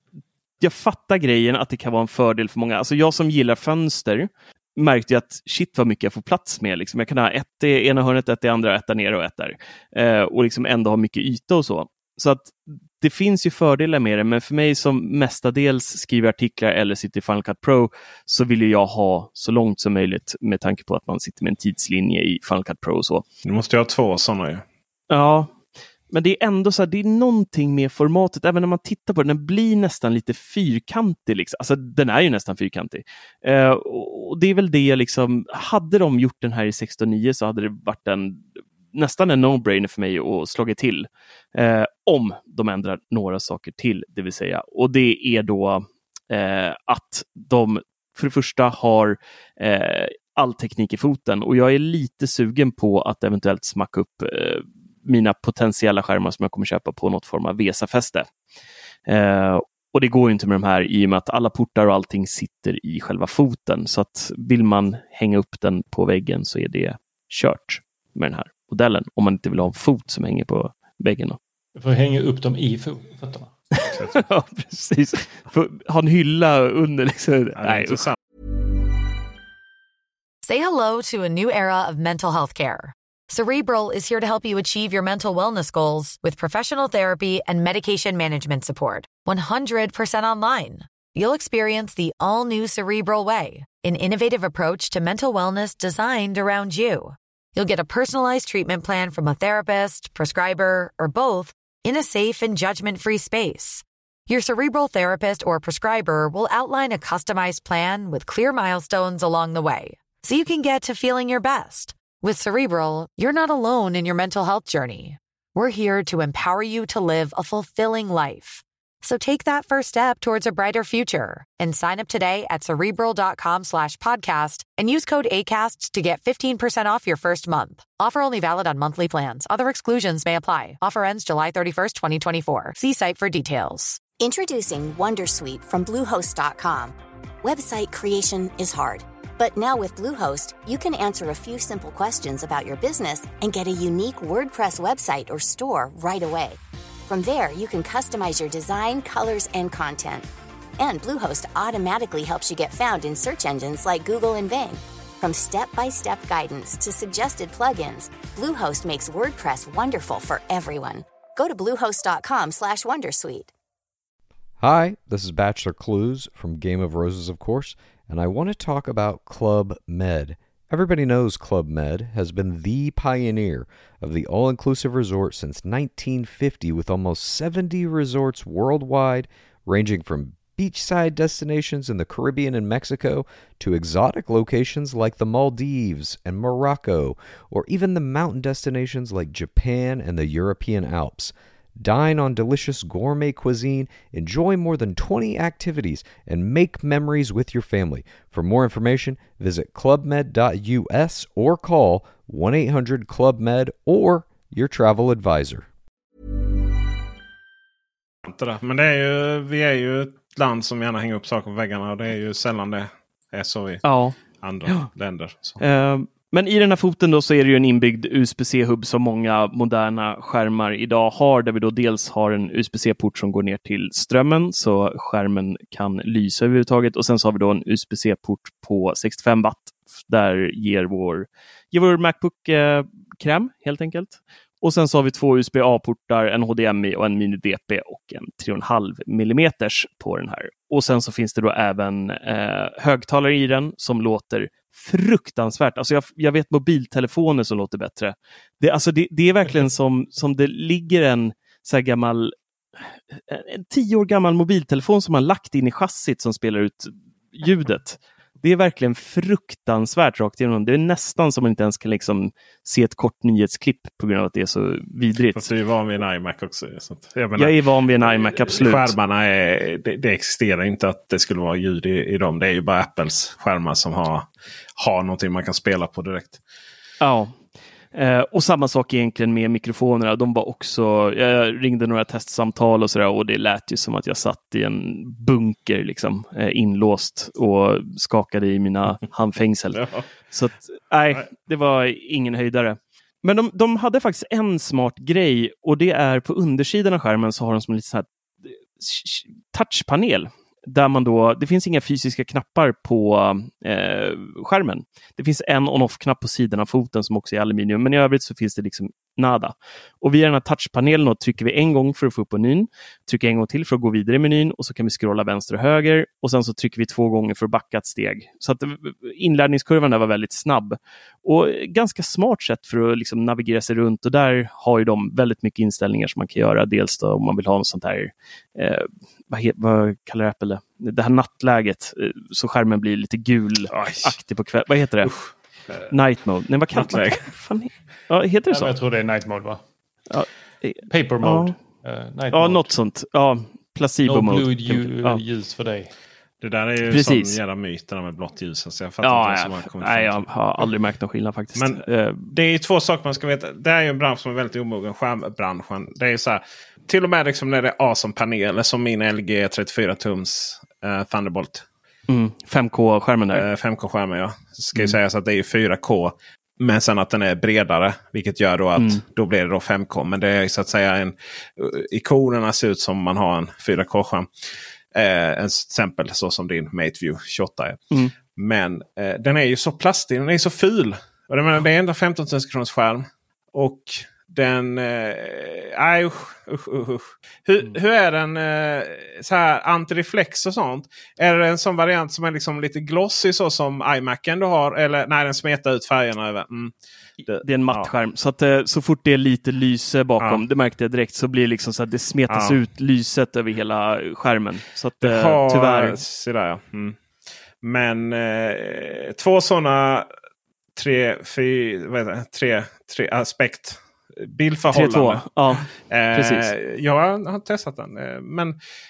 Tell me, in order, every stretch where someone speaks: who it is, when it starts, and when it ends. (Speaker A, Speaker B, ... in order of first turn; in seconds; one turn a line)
Speaker A: 0.6-23.2
Speaker B: 23.4-24.6
Speaker A: 25.1-25.5
Speaker A: 26.1-58.3
Speaker A: 59.1-71.4
Speaker C: 71.8-73.5
Speaker A: 73.7-78.1
Speaker B: 77.6-78.2
Speaker D: 80.5-134.0
Speaker E: 134.2-150.3
Speaker E: 150.8-163.5
Speaker F: 164.6-205.7
Speaker B: 208.3-213.9
Speaker A: 213.8-214.9
Speaker B: 214.4-215.6
Speaker A: 215.6-252.3
Speaker A: 253.2-265.5
Speaker B: 265.4-276.4
Speaker A: 267.4-268.9
Speaker A: 277.0-277.4
Speaker A: 277.9-335.1
Speaker B: 333.7-334.1
Speaker B: 335.0-335.9
Speaker A: 335.9-338.7
Speaker B: 336.7-337.3
Speaker C: 338.5-339.6
Speaker A: 340.1-341.6
Speaker C: 340.9-342.7
Speaker A: 342.3-345.2
Speaker C: 344.1-345.9
Speaker B: 346.4-350.3
Speaker A: 346.9-347.4
Speaker A: 349.0-352.3
Speaker B: 351.6-361.6
Speaker A: 362.1-363.4
Speaker B: 363.3-374.3
Speaker A: 368.8-369.0
Speaker B: 374.9-396.7
Speaker A: 397.3-406.0
Speaker B: 397.3-397.9
Speaker B: 402.3-402.6
Speaker B: 405.0-407.0
Speaker B: 407.6-410.1
Speaker B: 410.8-418.6
Speaker A: 414.7-416.5